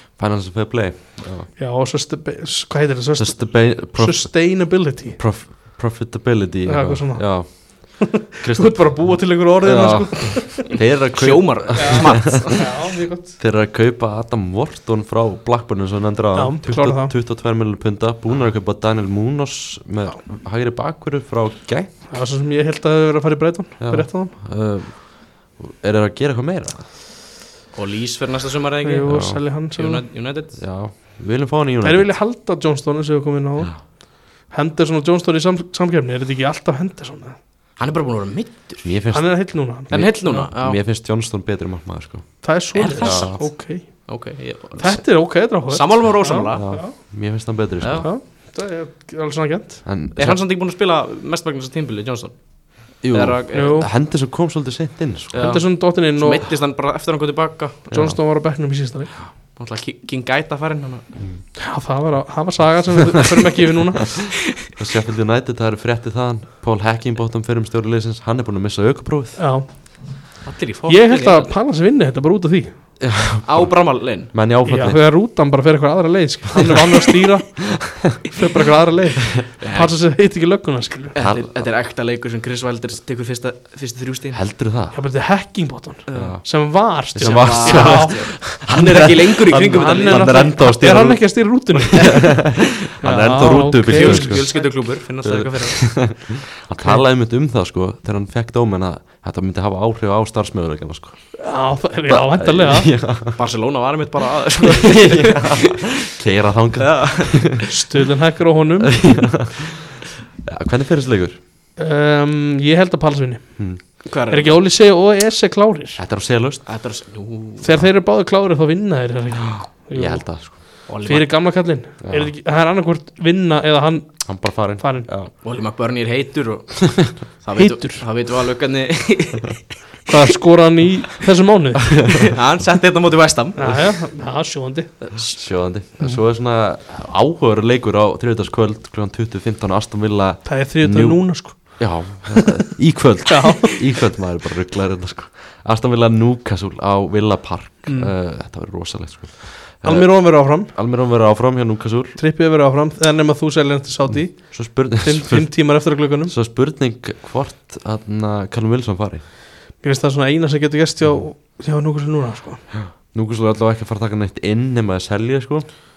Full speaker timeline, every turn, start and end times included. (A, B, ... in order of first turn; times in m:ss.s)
0:00.2-0:01.5 A
0:01.6-0:05.2 B
0:03.2-0:12.7 A
0:06.6-0:10.8 B
0:10.6-0:12.7 C
0:11.7-0:13.4 B
0:13.4-0:21.9 A
0:16.3-0:17.1 B
0:22.1-0:24.3 B
0:23.8-0:26.8 A
0:27.7-0:30.6 C
0:28.8-0:30.0 B
0:29.0-0:29.4 A
0:30.6-0:32.2 A
0:31.8-0:37.4 B
0:37.8-0:39.0 C
0:38.8-0:43.5 A
0:39.1-0:40.5 B
0:39.9-0:40.8 C
0:42.4-0:46.9 B
0:42.7-0:46.8 C
0:46.5-0:48.1 A
0:47.8-0:48.1 C
0:48.0-0:49.8 B
0:49.8-0:50.4 A
0:50.2-0:53.8 C
0:53.0-0:55.5 A
0:53.5-0:53.9 B
0:55.3-0:58.1 C
0:55.4-0:56.4 B
0:57.9-0:58.2 A
0:57.9-0:59.1 B
0:59.6-1:01.1 C
1:01.6-1:04.3 B
1:04.6-1:09.4 A
1:09.4-1:10.4 B
1:10.4-1:11.5 C
1:10.9-1:12.7 B
1:13.0-1:15.0 A
1:13.4-1:14.3 C
1:14.6-1:21.2 B
1:17.9-1:18.2 A
1:19.6-1:20.0 C
1:21.1-1:24.4 C
1:21.2-1:21.6 A
1:24.3-1:25.0 A
1:24.9-1:28.2 B
1:26.1-1:26.5 C
1:26.1-1:26.4 A
1:27.1-1:41.3 A
1:27.1-1:30.5 C
1:29.6-1:34.7 B
1:33.6-1:36.2 C
1:41.4-1:42.9 B
1:42.1-1:43.4 A
1:43.3-1:46.1 C
1:44.6-1:47.6 A
1:46.8-1:47.7 C
1:47.7-1:49.3 B
1:48.8-1:51.4 A
1:51.8-1:56.0 B
1:54.0-1:54.6 C
1:56.0-1:56.6 A
1:56.6-1:57.8 C
1:57.6-2:05.1 B
1:59.6-2:00.8 A
2:00.9-2:01.4 C
2:02.0-2:02.3 A
2:04.2-2:05.3 A
2:05.4-2:09.7 C
2:07.6-2:08.0 B
2:10.1-2:12.2 B
2:12.3-2:13.9 C
2:13.6-2:15.0 B
2:15.0-2:15.4 C
2:15.3-2:32.2 A
2:20.4-2:22.4 B
2:23.3-2:24.0 B
2:27.8-2:28.1 B
2:29.8-2:30.7 B
2:32.2-2:36.3 B
2:34.0-2:39.2 A
2:39.8-2:42.6 B
2:42.7-2:45.6 A